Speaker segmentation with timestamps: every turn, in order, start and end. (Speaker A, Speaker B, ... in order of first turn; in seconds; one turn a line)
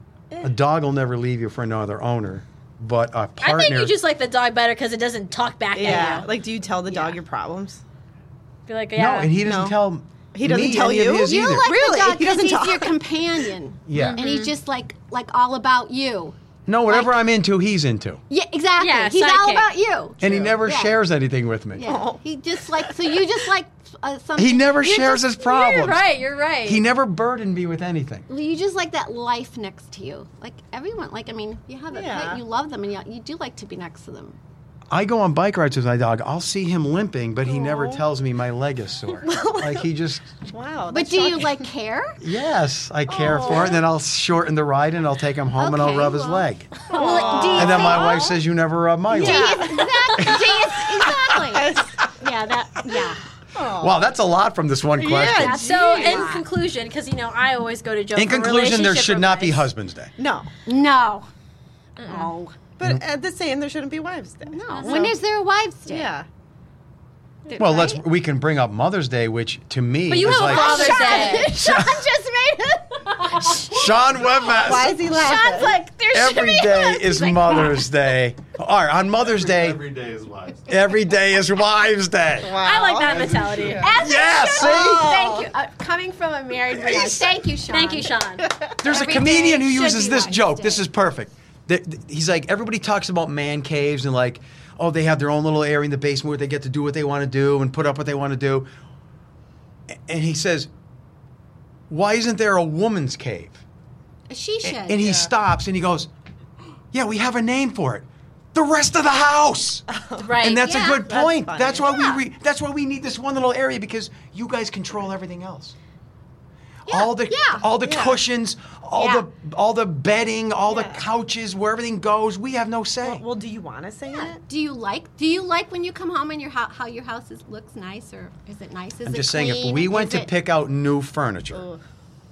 Speaker A: 0.4-4.0
Speaker B: 3.4-6.3
Speaker C: 5.7-7.8
Speaker D: 5.8-6.2
Speaker B: 8.7-9.3
Speaker A: 8.9-11.7
Speaker C: 9.4-9.8
Speaker C: 10.3-12.9
Speaker D: 11.2-16.4
Speaker A: 13.9-14.2
Speaker B: 13.9-14.5
Speaker A: 16.7-18.2
Speaker D: 16.9-17.2
Speaker D: 18.3-20.9
Speaker B: 18.8-19.7
Speaker A: 20.2-21.9
Speaker C: 20.2-20.5
Speaker D: 21.7-25.0
Speaker C: 21.8-22.2
Speaker A: 24.4-26.0
Speaker B: 24.8-26.8
Speaker A: 26.6-28.2
Speaker D: 28.3-34.4
Speaker C: 31.9-32.4
Speaker A: 34.9-40.4
Speaker C: 37.4-38.0
Speaker C: 39.2-39.9
Speaker C: 40.5-41.7
Speaker D: 40.9-42.2
Speaker A: 42.2-46.8
Speaker C: 43.1-43.8
Speaker D: 45.5-48.3
Speaker C: 46.9-48.4
Speaker B: 46.9-48.1
Speaker A: 47.5-51.4
Speaker C: 49.1-50.0
Speaker D: 49.1-53.2
Speaker C: 51.5-51.9
Speaker C: 53.5-54.0
Speaker A: 53.8-55.6
Speaker C: 55.0-56.3
Speaker D: 55.3-56.4
Speaker B: 55.4-59.7
Speaker A: 58.1-60.1
Speaker C: 60.2-60.5
Speaker D: 60.6-61.3
Speaker B: 62.0-62.3
Speaker D: 62.0-62.5
Speaker C: 62.8-65.2
Speaker D: 64.5-66.1
Speaker B: 64.7-65.0
Speaker C: 65.9-66.3
Speaker D: 67.5-68.0
Speaker A: 67.6-72.0
Speaker B: 70.1-71.5
Speaker D: 70.2-74.5
Speaker B: 73.3-73.6
Speaker A: 73.6-75.1
Speaker C: 74.5-75.8
Speaker D: 75.1-77.9
Speaker B: 75.2-76.2
Speaker A: 76.1-82.6
Speaker C: 82.4-84.0
Speaker B: 82.6-84.0
Speaker D: 83.8-88.1
Speaker A: 83.9-85.1
Speaker C: 84.5-85.5
Speaker A: 86.7-87.4
Speaker B: 87.7-88.5
Speaker C: 88.4-88.7
Speaker D: 88.7-90.8
Speaker A: 88.8-98.7
Speaker A: 99.9-100.7
Speaker A: 101.9-103.6
Speaker D: 104.3-105.2
Speaker A: 104.6-106.1
Speaker C: 105.0-105.3
Speaker A: 106.9-109.8
Speaker C: 109.9-112.0
Speaker B: 110.2-110.9
Speaker A: 110.4-115.7
Speaker D: 111.9-112.2
Speaker A: 116.9-123.2
Speaker D: 116.9-117.7
Speaker C: 117.8-118.2
Speaker D: 119.0-119.3
Speaker C: 120.7-121.0
Speaker C: 123.0-124.4
Speaker D: 124.0-130.3
Speaker A: 129.0-131.7
Speaker C: 131.5-131.8